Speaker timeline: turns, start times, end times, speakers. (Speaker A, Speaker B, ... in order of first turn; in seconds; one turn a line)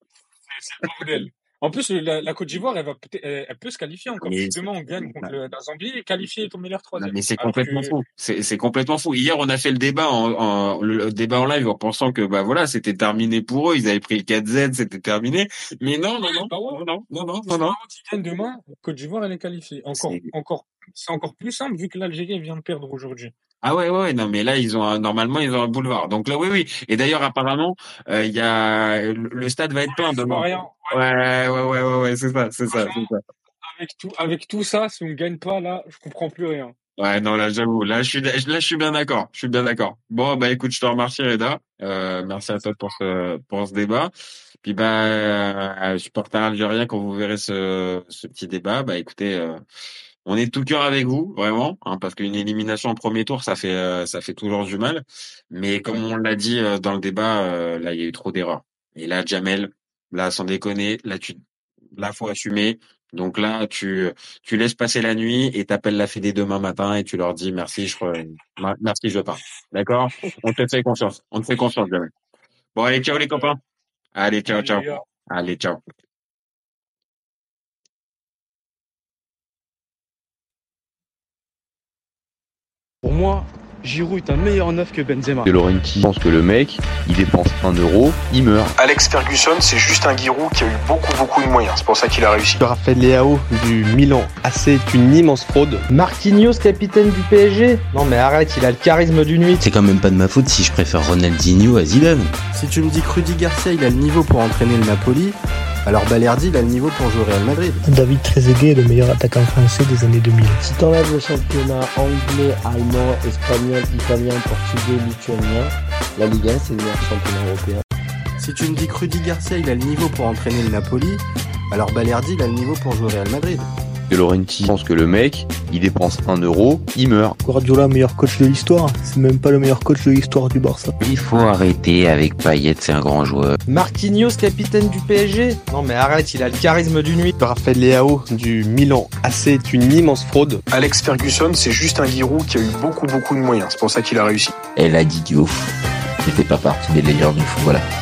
Speaker A: 0.5-7.9
Speaker B: 4.2-5.3
Speaker B: 7.0-17.8
Speaker A: 16.2-16.8
Speaker A: 17.5-23.3
Speaker B: 19.9-20.3
Speaker B: 23.6-33.2
Speaker A: 29.9-31.0
Speaker A: 32.7-33.1
Speaker A: 33.6-36.7
Speaker B: 37.0-44.1
Speaker A: 42.5-42.9
Speaker B: 44.6-49.6
Speaker B: 50.2-61.4
Speaker B: 61.9-72.1
Speaker B: 72.7-73.6
Speaker A: 73.1-73.6
Speaker B: 74.1-75.8
Speaker A: 74.4-75.0
Speaker C: 83.0-85.5
Speaker D: 85.4-88.7
Speaker E: 88.8-92.6
Speaker F: 92.6-95.9
Speaker G: 95.9-99.6
Speaker H: 99.6-102.3
Speaker I: 102.5-107.8
Speaker J: 107.8-110.6
Speaker K: 110.6-117.8
Speaker I: 118.4-123.7
Speaker D: 124.1-127.4
Speaker J: 127.4-130.9
Speaker H: 131.0-133.6
Speaker G: 133.7-137.3
Speaker F: 137.4-140.6
Speaker E: 140.7-144.6
Speaker H: 144.8-145.7
Speaker H: 146.2-147.8